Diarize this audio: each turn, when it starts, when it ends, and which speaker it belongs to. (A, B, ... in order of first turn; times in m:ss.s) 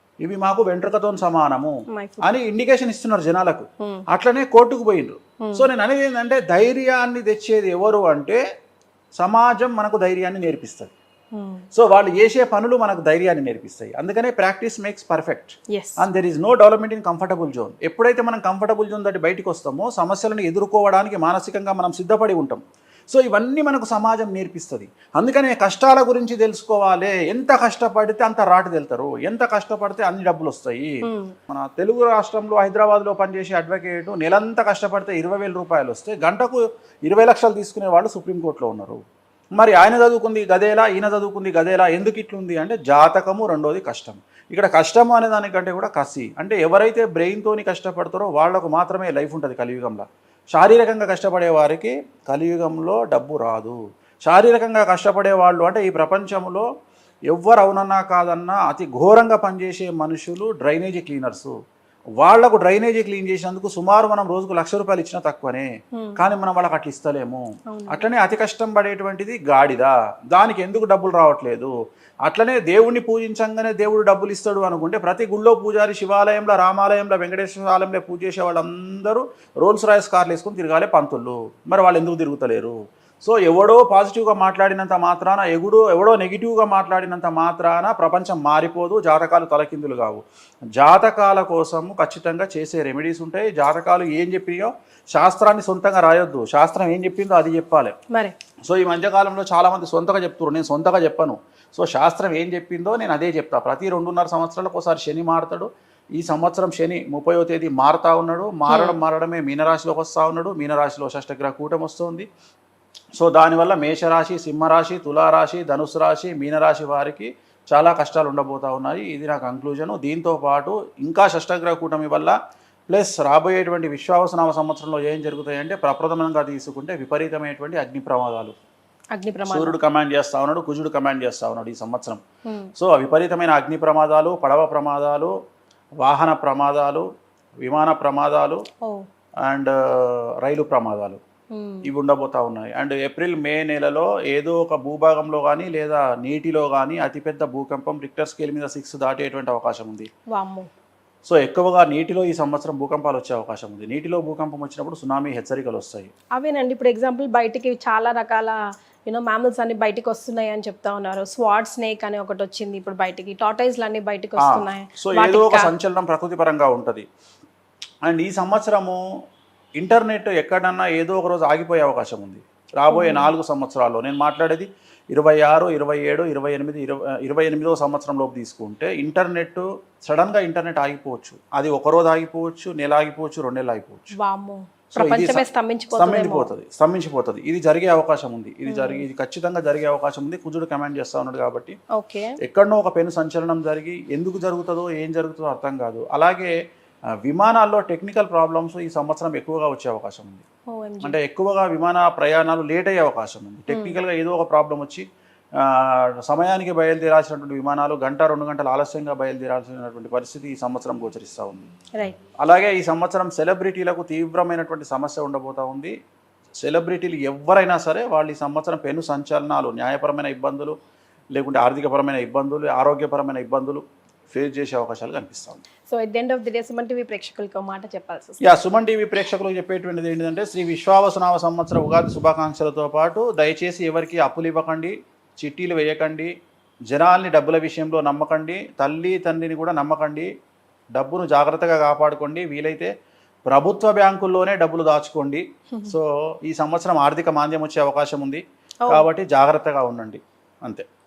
0:00.2-0:08.4 A
0:01.9-0:02.3 B
0:05.4-0:05.7 B
0:09.2-0:10.9 A
0:11.3-0:11.6 B
0:11.7-0:31.0 A
0:15.7-0:16.0 B
0:31.0-0:31.3 B
0:31.5-0:39.0 A
0:39.6-0:56.7 A
0:57.3-1:01.5 A
1:02.2-1:11.7 A
1:06.0-1:06.2 B
1:07.7-1:08.1 B
1:12.2-1:30.2 A
1:30.8-1:37.9 A
1:38.6-1:52.3 A
1:48.7-1:49.0 B
1:53.2-2:02.3 A
2:02.9-2:08.5 A
2:09.1-2:09.8 B
2:09.5-2:12.2 A
2:12.4-2:12.7 B
2:12.8-2:15.3 A
2:16.0-2:17.0 A
2:17.6-2:18.6 A
2:19.4-2:21.2 A
2:21.5-2:21.9 B
2:21.8-2:30.1 A
2:30.3-2:30.7 B
2:31.2-2:36.1 A
2:36.4-2:45.7 B
2:44.4-2:47.0 A
2:48.0-2:49.0 A
2:49.8-3:04.1 A
2:52.9-2:53.3 B
3:04.1-3:06.5 B
3:04.9-3:11.7 A
3:08.7-3:09.0 B
3:11.9-3:12.3 B
3:12.4-3:16.5 A
3:17.2-3:20.4 A
3:20.7-3:21.2 B
3:21.0-3:25.0 A
3:23.7-3:24.0 B
3:25.6-3:31.7 A
3:32.4-3:35.9 A
3:36.6-3:40.7 A
3:41.3-3:45.6 A
3:45.9-3:48.5 B
3:48.4-3:56.3 A
3:56.9-4:00.3 A
4:00.9-4:02.9 A
4:03.5-4:10.8 A